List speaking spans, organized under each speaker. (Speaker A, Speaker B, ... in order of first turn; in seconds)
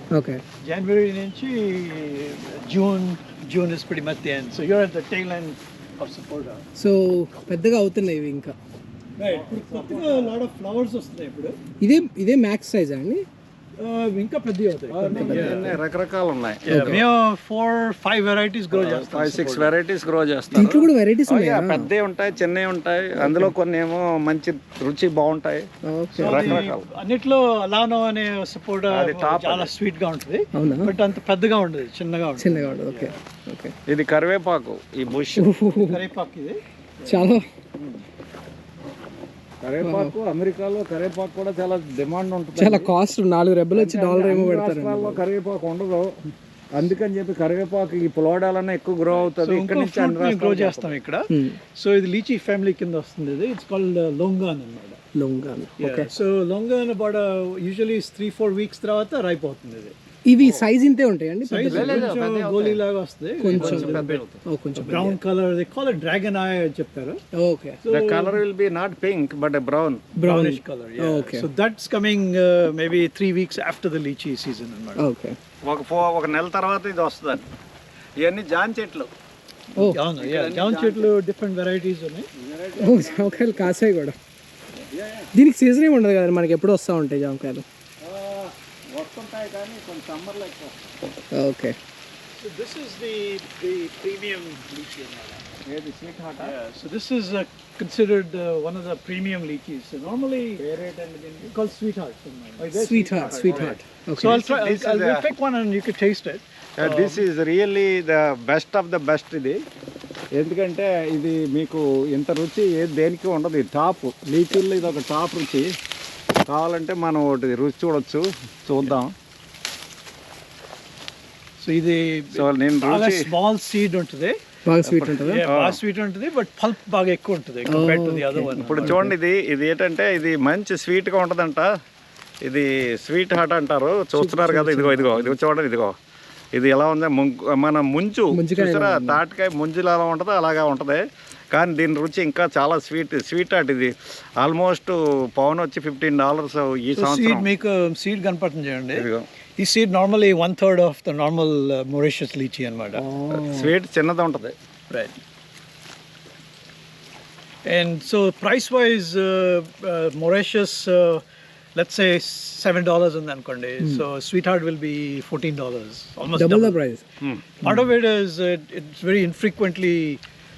Speaker A: 0.1-0.4, 6.8-8.5, 11.8-13.2, 15.1-15.8, 16.7-17.0, 20.5-21.9, 23.1-23.5, 25.8-26.6, 30.5-30.9, 32.4-33.8, 35.3-36.1, 37.1-37.4, 39.8-40.1, 42.5-45.2, 51.3-51.6, 55.1-56.1, 60.2-62.1, 63.4-65.2, 67.3-67.8, 70.2-71.5, 75.0-75.3, 82.8-84.2, 85.3-87.6, 91.3-91.8, 102.8-104.4, 124.7-125.5, 127.7-129.1, 134.1-135.3, 138.3-139.2, 152.9-153.7, 166.3-167.0, 167.6-167.9
Speaker B: 0.6-6.6, 9.2-11.6, 13.8-15.8, 16.6-19.8, 26.1-32.7, 35.8-36.6, 49.1-55.0, 55.8-59.9, 61.5-64.2, 64.8-67.2, 67.8-68.4, 70.2-75.0, 79.9-82.3, 92.3-95.4, 96.4-100.6, 101.5-107.2, 121.6-124.4, 125.1-129.1, 146.9-149.1, 149.6-153.0, 157.7-161.2, 161.8-166.8, 167.6-170.2
Speaker C: 9.2-10.4, 14.9-17.0, 18.7-25.7, 26.2-26.9, 28.9-29.7, 32.9-33.1, 33.9-35.7, 37.8-38.0, 39.6-42.9, 43.7-46.1, 46.7-51.0, 60.4-60.7, 61.7-62.8, 63.5-64.4, 67.9-70.0, 75.6-77.5, 78.2-79.1, 80.2-81.1, 82.3-83.8, 84.9-85.3, 88.0-90.9, 95.6-96.5, 100.6-101.5, 102.6-105.2, 106.8-109.6, 110.3-115.7, 116.5-119.1, 122.3-123.3, 124.8-125.8, 128.5-131.7, 132.4-135.9, 136.5-147.5, 148.9-149.2, 153.3-154.5